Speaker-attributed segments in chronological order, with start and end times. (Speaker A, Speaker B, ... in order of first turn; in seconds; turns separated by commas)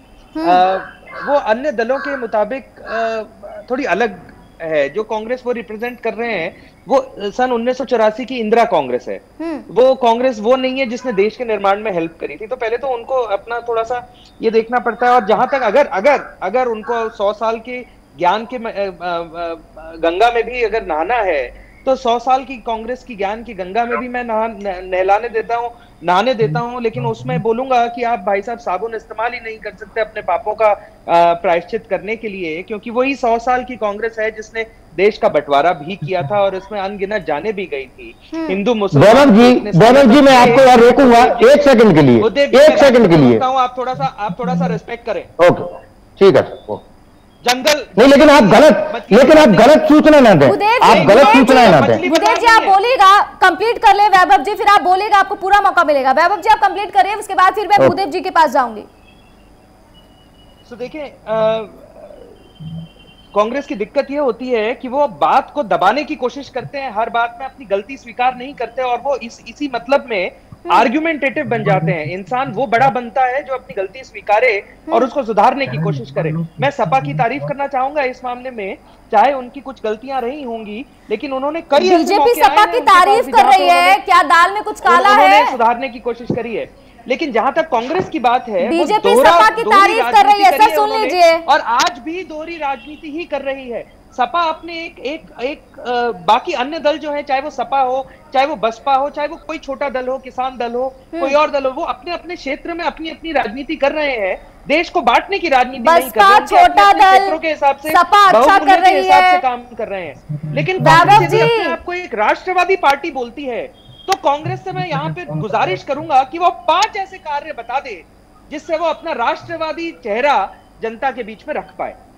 Speaker A: 0.4-0.6, Speaker B: 0.4-41.6, Speaker A: 9.4-9.7, Speaker C: 38.9-43.4, Speaker B: 42.2-45.3, Speaker C: 45.4-46.8, Speaker B: 47.4-49.9, Speaker C: 48.0-52.0, Speaker A: 50.5-58.9, Speaker B: 50.8-52.8, Speaker B: 60.7-62.3, Speaker B: 63.3-84.0, Speaker A: 81.8-85.6, Speaker B: 84.8-122.0, Speaker A: 88.6-91.4, Speaker A: 105.8-107.4, Speaker A: 107.9-109.4, Speaker A: 110.8-111.8